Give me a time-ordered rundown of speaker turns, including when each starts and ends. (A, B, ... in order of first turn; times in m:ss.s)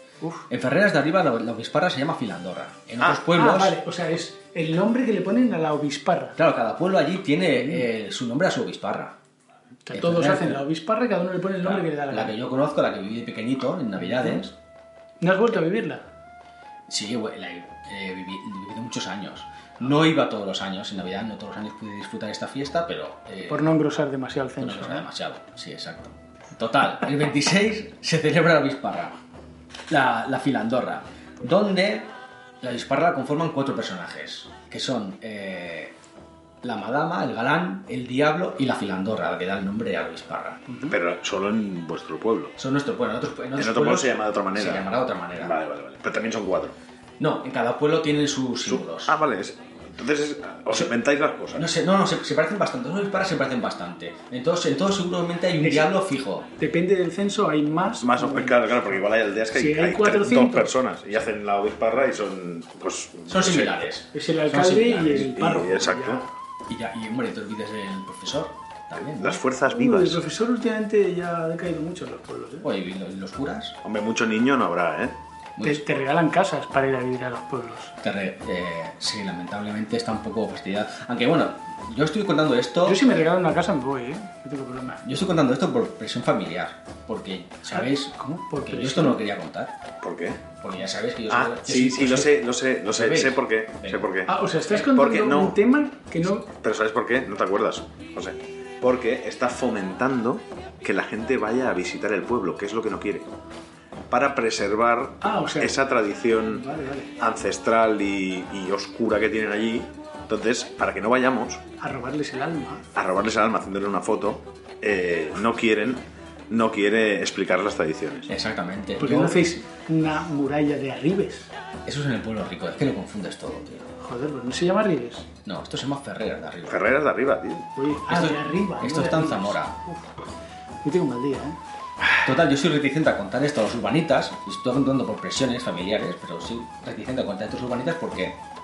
0:00.5-0:03.8 A
0:03.3-0:06.4 B
0:06.4-0:09.2 A
0:07.6-0:07.8 B
0:09.9-0:12.4 B
0:09.9-0:10.6 A
0:11.6-0:14.5 A
0:14.0-0:14.4 B
0:15.2-0:16.0 B
0:16.9-0:23.7 A
0:23.5-0:25.1 B
0:24.6-0:29.2 A
0:29.9-0:32.1 A
0:32.6-0:35.9 A
0:36.6-0:40.8 A
0:40.9-0:42.6 C
0:42.6-0:45.6 A
0:43.6-0:46.8 C
0:47.2-0:49.2 A
0:48.6-0:51.7 C
0:51.5-0:56.5 A
0:55.6-0:55.9 B
0:56.6-0:58.8 B
0:58.0-1:03.8 C
0:59.5-1:00.7 B
1:03.3-1:05.3 A
1:04.1-1:06.3 B
1:05.1-1:06.2 C
1:06.7-1:09.4 A
1:09.2-1:10.2 C
1:09.7-1:12.7 B
1:12.6-1:13.8 A
1:13.8-1:15.2 C
1:15.6-1:15.9 A
1:15.6-1:17.9 B
1:18.0-1:23.0 A
1:22.8-1:25.0 B
1:25.0-1:29.7 A
1:27.7-1:29.2 B
1:30.0-1:30.4 C
1:30.6-1:34.1 A
1:31.3-1:35.6 C
1:34.3-1:36.5 B
1:36.5-1:43.3 C
1:44.1-1:51.6 C
1:45.2-1:45.8 B
1:46.4-1:47.1 B
1:51.8-1:52.9 B
1:53.0-1:58.3 C
1:58.3-1:59.4 A
1:59.0-2:01.5 B
2:01.9-2:03.9 A
2:04.0-2:05.3 B
2:05.4-2:06.9 A
2:06.7-2:07.7 C
2:07.8-2:10.1 B
2:08.1-2:09.8 A
2:10.8-2:11.6 B
2:12.2-2:18.4 A